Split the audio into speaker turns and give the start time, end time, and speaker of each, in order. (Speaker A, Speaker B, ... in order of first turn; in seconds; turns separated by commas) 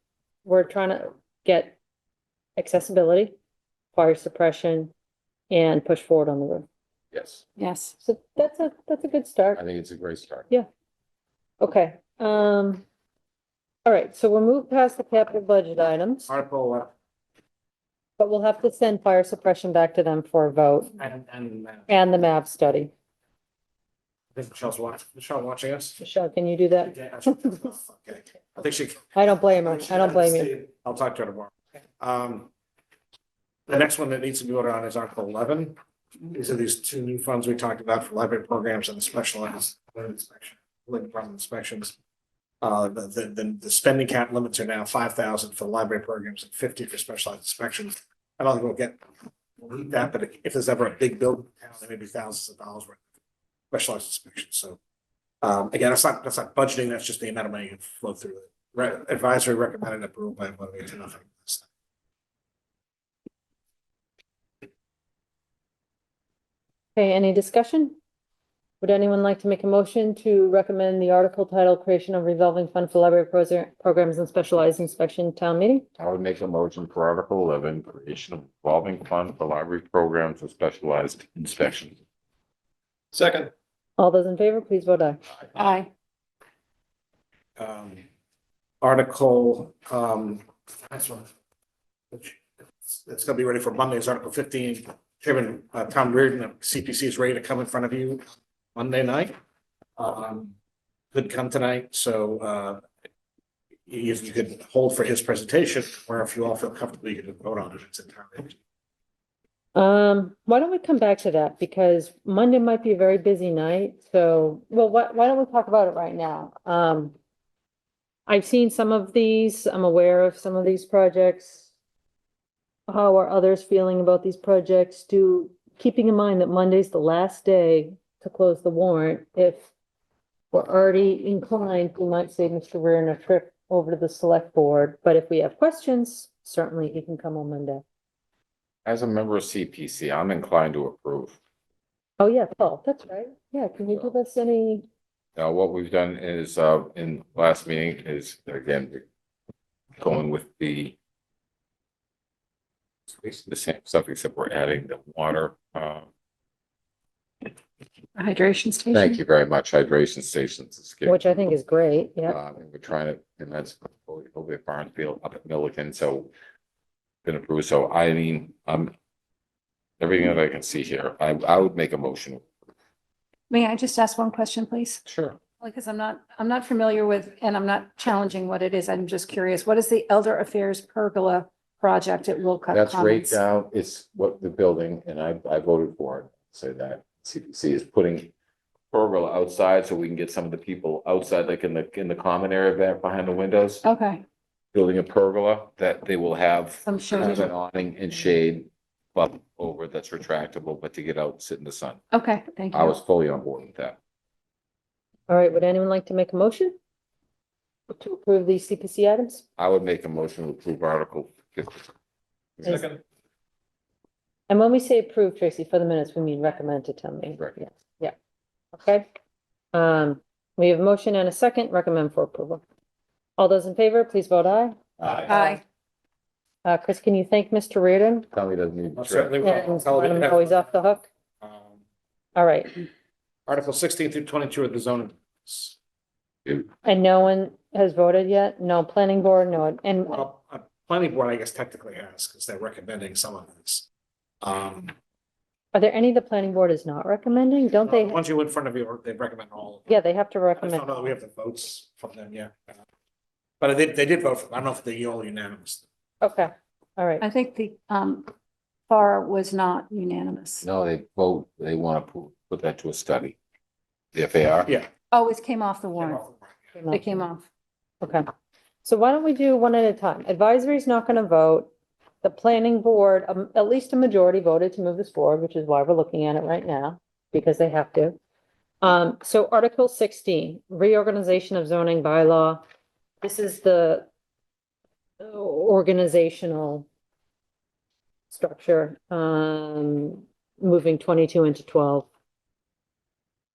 Speaker A: 0.4-1.8, Speaker A: 2.6-3.3, Speaker A: 4.0-4.9, Speaker A: 5.5-6.7, Speaker B: 7.1-7.4, Speaker C: 7.6-7.9, Speaker A: 8.0-9.6, Speaker B: 9.5-10.5, Speaker A: 11.6-12.8, Speaker A: 13.8-16.3, Speaker D: 16.3-16.9, Speaker A: 18.2-21.0, Speaker D: 21.0-21.9, Speaker A: 21.9-22.9, Speaker D: 24.3-26.0, Speaker A: 26.0-27.6, Speaker D: 26.8-32.5, Speaker A: 29.1-30.5, Speaker D: 33.7-41.9, Speaker D: 42.6-49.1, Speaker D: 49.6-53.0, Speaker D: 53.7-54.8, Speaker D: 55.4-61.7, Speaker A: 67.0-68.0, Speaker A: 68.8-75.9, Speaker B: 76.0-82.0, Speaker A: 84.0-85.2, Speaker C: 85.5-85.9, Speaker D: 87.6-88.0, Speaker D: 88.8-91.3, Speaker D: 92.1-98.2, Speaker D: 98.8-99.3, Speaker D: 100.0-100.5, Speaker D: 101.1-102.8, Speaker D: 103.9-108.6, Speaker A: 109.7-117.1, Speaker A: 118.3-121.7, Speaker A: 122.9-129.7, Speaker A: 130.5-137.8, Speaker B: 138.8-141.3, Speaker A: 142.2-144.8, Speaker B: 145.3-149.0, Speaker B: 150.0-150.9, Speaker B: 153.2-156.1, Speaker C: 158.2-159.2, Speaker B: 158.9-161.2, Speaker A: 161.1-162.4, Speaker B: 162.3-166.3, Speaker B: 167.2-168.9, Speaker B: 170.0-172.4, Speaker C: 173.5-175.0, Speaker B: 175.1-175.4, Speaker C: 175.6-183.4, Speaker B: 182.7-188.3, Speaker B: 188.9-193.8, Speaker C: 193.8-194.2, Speaker B: 194.7-202.0, Speaker C: 196.8-197.5, Speaker C: 202.1-202.9, Speaker B: 202.7-204.0, Speaker A: 205.3-206.7, Speaker A: 207.9-209.4, Speaker B: 209.6-211.9, Speaker B: 212.6-212.9, Speaker A: 214.5-218.1, Speaker A: 218.7-219.1, Speaker A: 219.7-222.6, Speaker A: 223.4-224.8, Speaker B: 225.0-225.3, Speaker C: 225.3-225.6, Speaker A: 225.3-225.6, Speaker A: 226.6-228.3, Speaker B: 228.3-229.5, Speaker D: 228.9-230.6, Speaker A: 229.4-231.1, Speaker D: 231.4-231.7, Speaker A: 232.3-232.8, Speaker D: 233.5-235.8, Speaker A: 236.8-240.2, Speaker D: 240.1-243.8, Speaker D: 244.4-244.9, Speaker A: 245.7-248.2, Speaker D: 247.8-249.9, Speaker A: 249.9-251.1, Speaker D: 250.6-252.6, Speaker D: 253.6-255.8, Speaker A: 256.2-257.2, Speaker C: 257.2-258.3, Speaker C: 258.9-260.6, Speaker B: 260.6-263.4, Speaker B: 264.1-264.7, Speaker C: 265.1-266.2, Speaker D: 266.0-266.4, Speaker A: 266.7-267.2, Speaker C: 266.9-267.4, Speaker A: 268.8-271.7, Speaker A: 272.2-278.2, Speaker A: 278.8-282.6, Speaker A: 283.2-284.0, Speaker A: 285.2-286.9, Speaker A: 288.3-292.1